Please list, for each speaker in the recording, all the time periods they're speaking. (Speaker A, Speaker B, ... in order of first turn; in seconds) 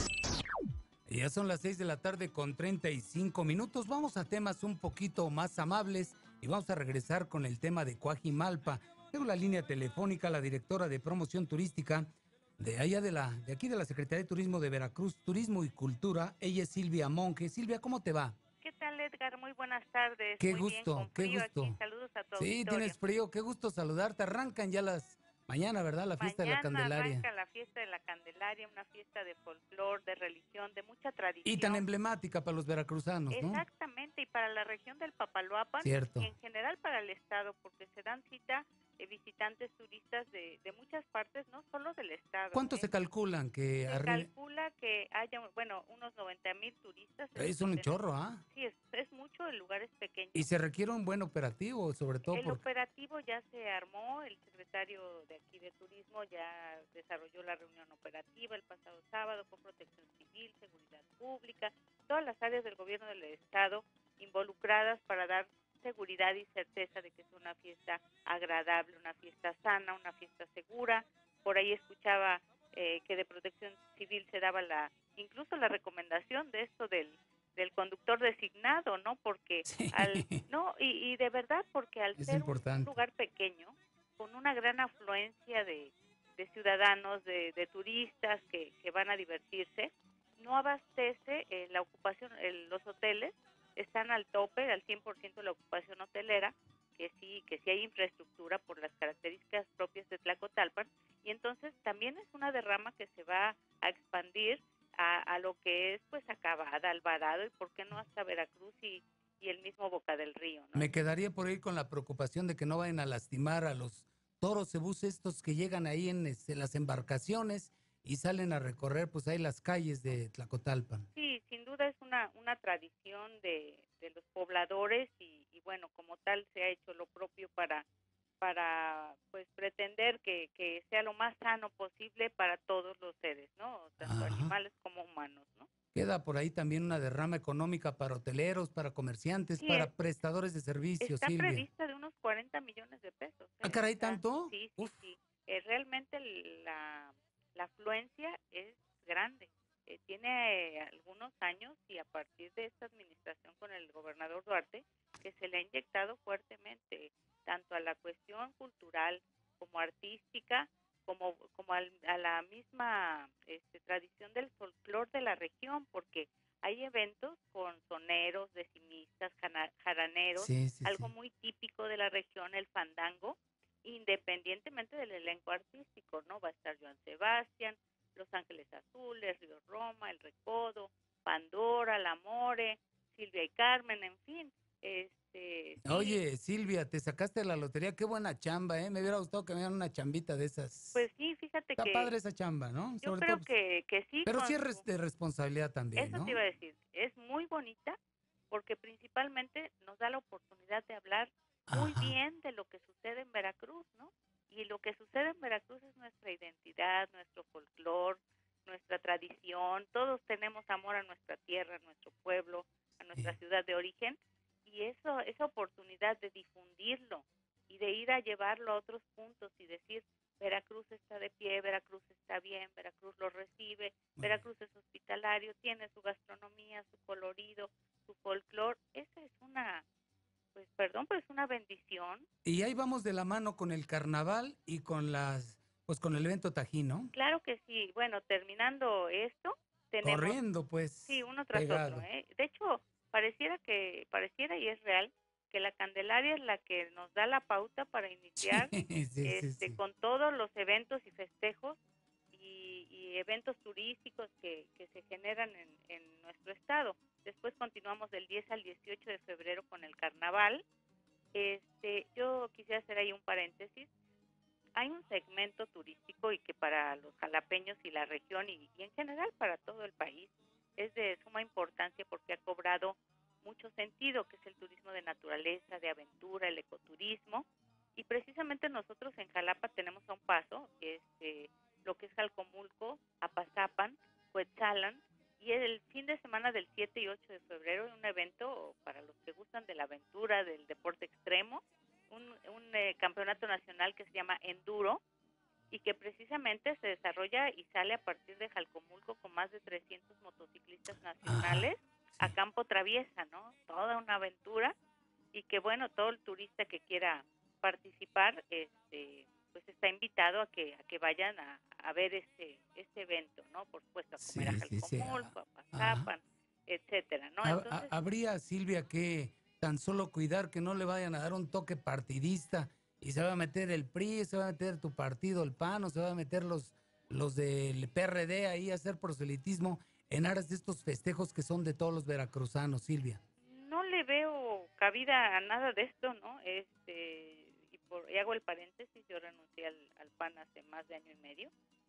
Speaker A: 1.1-12.1, 12.6-18.4, 20.4-21.8, 22.4-27.3, 31.4-33.6, 35.8-36.3, 42.5-44.3, 47.4-48.4, 50.3-52.6, 79.7-80.4, 82.2-83.0, 110.8-121.1, 134.0-134.5, 135.9-141.7, 143.6-145.0, 170.4-171.1, 185.8-191.1, 191.8-193.5, 194.2-196.4, 201.7-202.2, 232.4-237.1, 240.0-242.1, 248.4-249.8, 301.2-301.7, 314.2-316.1, 317.4-333.2
Speaker B: 18.6-23.0, 26.2-31.9, 33.3-42.9, 43.9-50.5, 52.3-111.0, 121.2-127.8, 128.4-135.7, 139.6-139.9, 141.0-186.2, 190.9-192.1, 193.0-194.8, 196.0-198.0, 198.5-229.8, 230.6-232.3, 237.1-240.4, 241.1-251.8, 252.3-260.6, 261.3-263.9, 264.8-295.0, 295.7-304.7, 305.3-317.9, 333.4-341.5